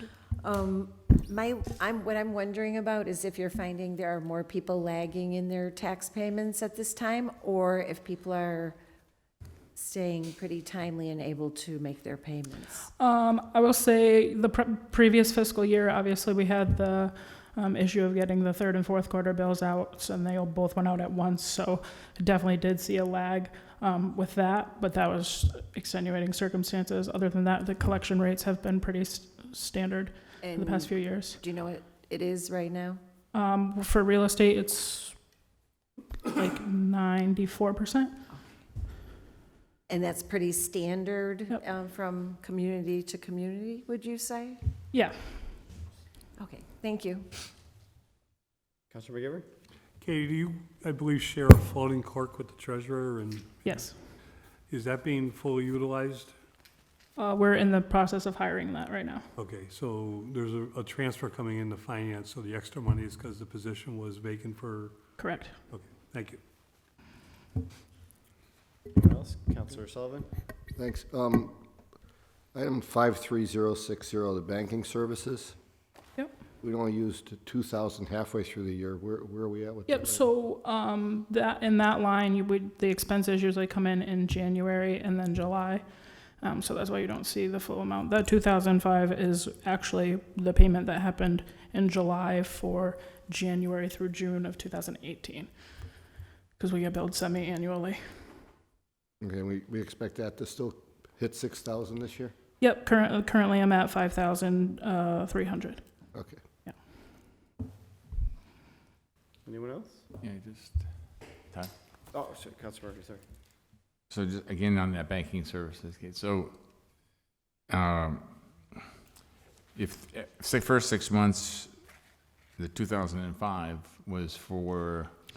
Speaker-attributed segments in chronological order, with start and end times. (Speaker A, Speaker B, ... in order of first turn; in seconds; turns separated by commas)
Speaker A: 0.4-8.8, Speaker A: 9.8-12.9, Speaker B: 13.0-31.4, Speaker A: 30.4-33.0, Speaker B: 33.3-35.2, Speaker B: 36.2-38.1, Speaker A: 39.9-44.6, Speaker B: 44.9-45.6, Speaker A: 46.4-47.3, Speaker C: 48.9-49.5, Speaker D: 50.0-53.9, Speaker B: 53.6-54.0, Speaker D: 54.7-56.4, Speaker B: 57.2-59.3, Speaker D: 59.4-65.1, Speaker B: 65.2-65.6, Speaker D: 65.7-66.4, Speaker C: 68.9-70.3, Speaker E: 70.8-71.6, Speaker E: 72.5-75.6, Speaker E: 76.6-80.2, Speaker B: 79.9-85.8, Speaker B: 86.4-95.5, Speaker B: 96.6-98.3, Speaker E: 99.2-102.3, Speaker B: 102.6-105.8, Speaker E: 106.1-106.4, Speaker C: 109.5-110.0, Speaker F: 110.2-110.8, Speaker C: 112.1-113.2, Speaker F: 114.1-116.5, Speaker F: 117.7-118.3, Speaker F: 119.8-121.7, Speaker F: 122.6-125.1